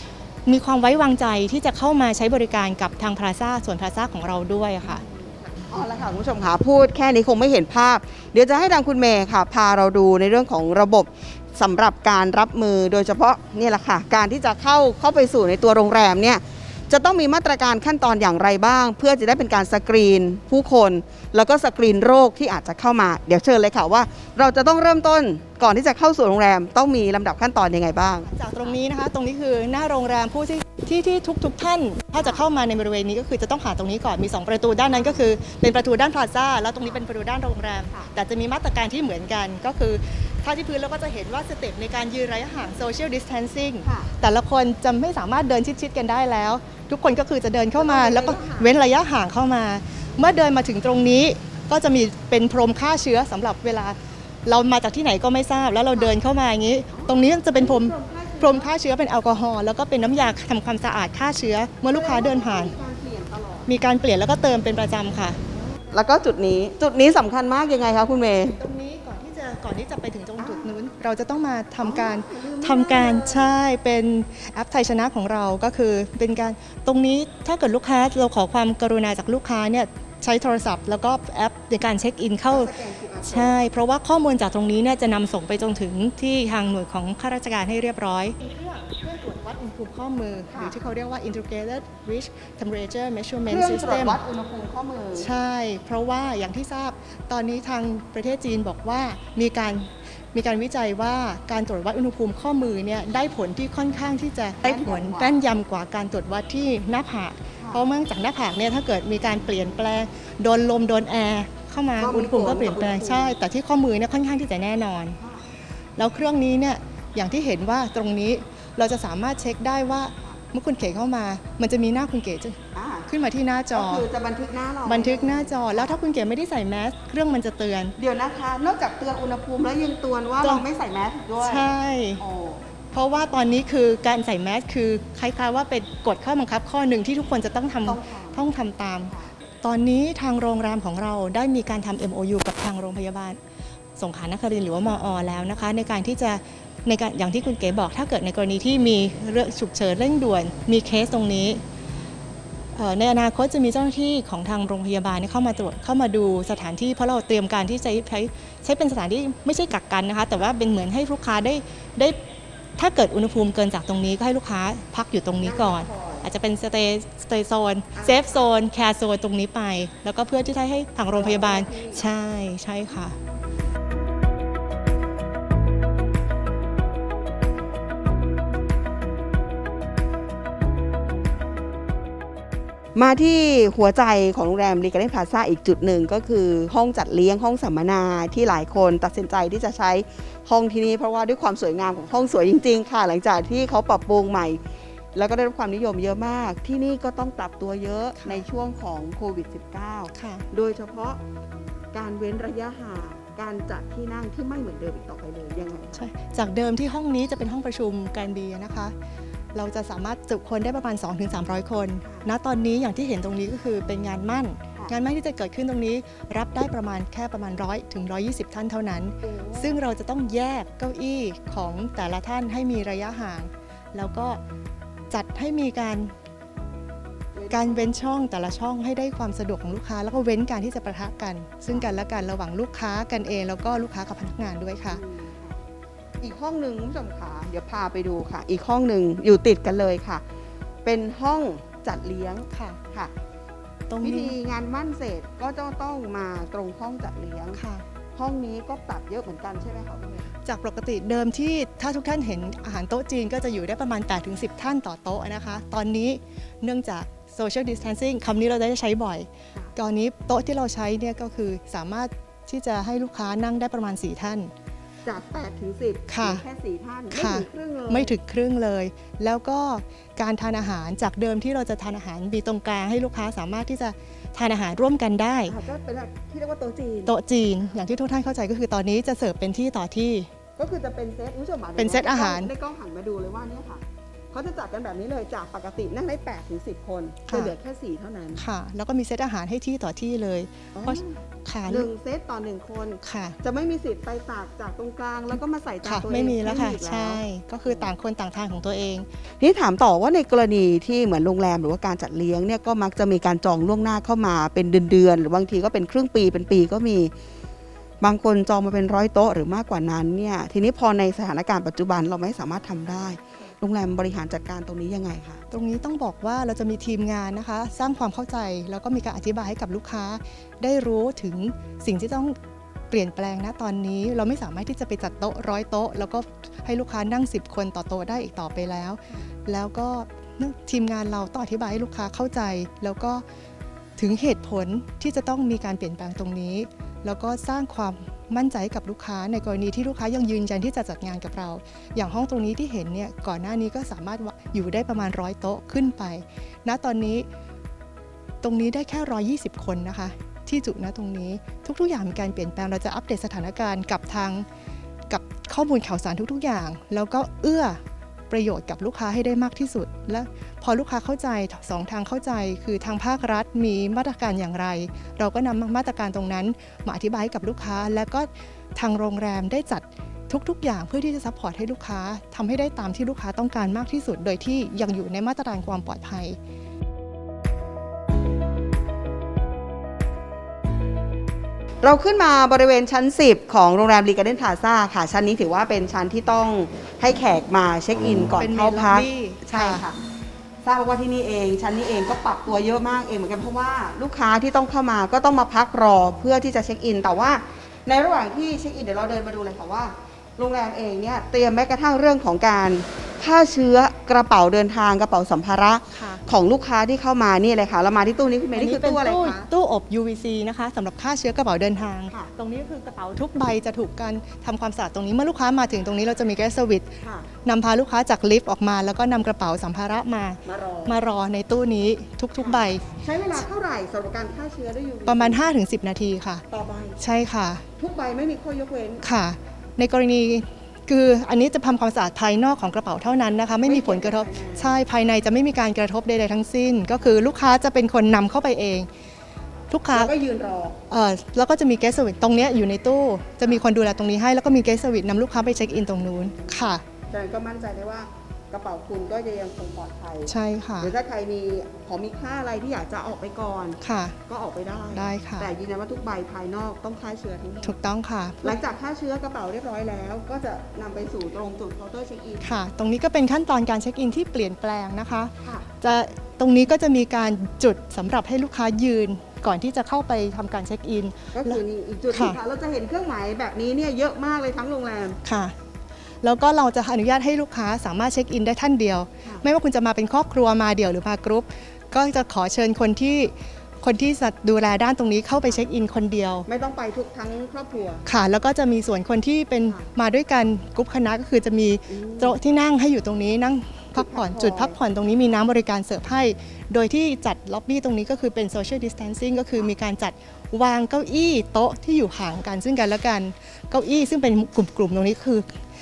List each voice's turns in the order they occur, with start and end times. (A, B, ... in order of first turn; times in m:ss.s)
0:00.4-0:05.0 A
0:04.8-0:28.8 B
0:28.2-1:02.7 A
0:32.2-0:32.4 B
0:34.7-0:35.3 B
0:43.8-0:44.1 B
0:47.8-0:48.7 B
0:55.9-0:56.1 B
0:56.9-0:58.7 B
1:01.9-1:03.7 B
1:03.7-1:05.4 A
1:05.5-1:08.6 B
1:08.5-1:22.7 A
1:10.4-1:10.7 B
1:11.8-1:13.5 B
1:22.5-1:23.6 B
1:23.2-1:34.2 A
1:30.5-1:30.8 B
1:33.5-1:35.3 B
1:35.2-1:55.2 A
1:44.6-1:45.4 B
1:47.6-1:47.8 B
1:52.0-1:53.4 B
1:56.0-2:04.0 A
2:02.7-2:03.1 B
2:03.7-2:06.0 B
2:04.8-2:08.0 A
2:08.0-2:12.6 B
2:11.4-2:12.2 A
2:12.9-2:19.1 A
2:17.8-2:18.4 B
2:19.6-2:23.4 A
2:24.0-2:31.6 A
2:32.7-2:42.2 A
2:42.8-2:53.2 A
2:45.4-2:46.3 B
2:47.9-2:48.5 B
2:51.1-2:52.0 B
3:02.9-3:14.6 B
3:15.1-3:21.2 B
3:18.2-3:18.4 A
3:20.1-3:20.4 A
3:21.9-3:26.0 B
3:25.9-3:28.9 A
3:29.5-3:44.4 A
3:39.2-3:39.8 B
3:45.1-3:46.1 A
3:47.3-3:48.0 B
3:47.5-3:55.0 A
3:54.9-3:55.6 B
3:56.2-4:00.2 B
4:00.8-4:03.1 B
4:02.5-4:02.8 A
4:03.9-4:04.3 A
4:04.0-4:07.6 B
4:07.6-4:07.8 A
4:08.2-4:10.3 B
4:10.4-4:24.5 A
4:25.0-4:28.1 B
4:26.1-4:26.4 A
4:27.1-4:35.6 A
4:35.5-4:37.2 B
4:37.1-4:40.3 A
4:40.6-4:48.4 B
4:41.8-4:42.5 A
4:47.3-4:47.5 A
4:48.4-4:51.9 A
4:50.7-4:57.9 B
4:53.0-4:53.4 A
4:55.8-4:59.1 A
4:59.4-5:07.1 B
5:08.0-5:15.4 B
5:15.5-5:22.4 A
5:22.9-5:33.2 A
5:34.0-5:47.3 A
5:48.4-5:54.4 A
5:55.1-6:16.4 A
6:21.8-6:30.0 B
6:28.4-6:29.8 A
6:30.6-6:49.4 B
6:45.9-6:46.2 A
6:48.5-6:56.9 A
6:57.0-6:57.3 B
6:57.4-7:02.8 A
7:00.4-7:01.0 B
7:02.4-7:05.4 B
7:05.0-7:06.4 A
7:06.5-7:07.0 B
7:07.0-7:07.6 A
7:07.8-7:09.0 B
7:09.0-7:18.9 A
7:13.6-7:14.8 B
7:19.7-7:20.1 A
7:19.9-7:20.8 B
7:20.9-7:26.8 A
7:27.1-7:37.8 B
7:30.3-7:30.9 A
7:33.8-7:34.2 A
7:34.9-7:35.5 A
7:37.6-7:38.6 A
7:38.4-7:42.6 B
7:42.4-7:51.6 A
7:51.3-7:55.2 B
7:52.1-7:52.4 A
7:55.2-7:55.5 A
7:56.2-8:06.5 A
8:06.4-8:08.0 B
8:08.0-8:25.6 A
8:11.9-8:12.4 B
8:13.9-8:14.8 B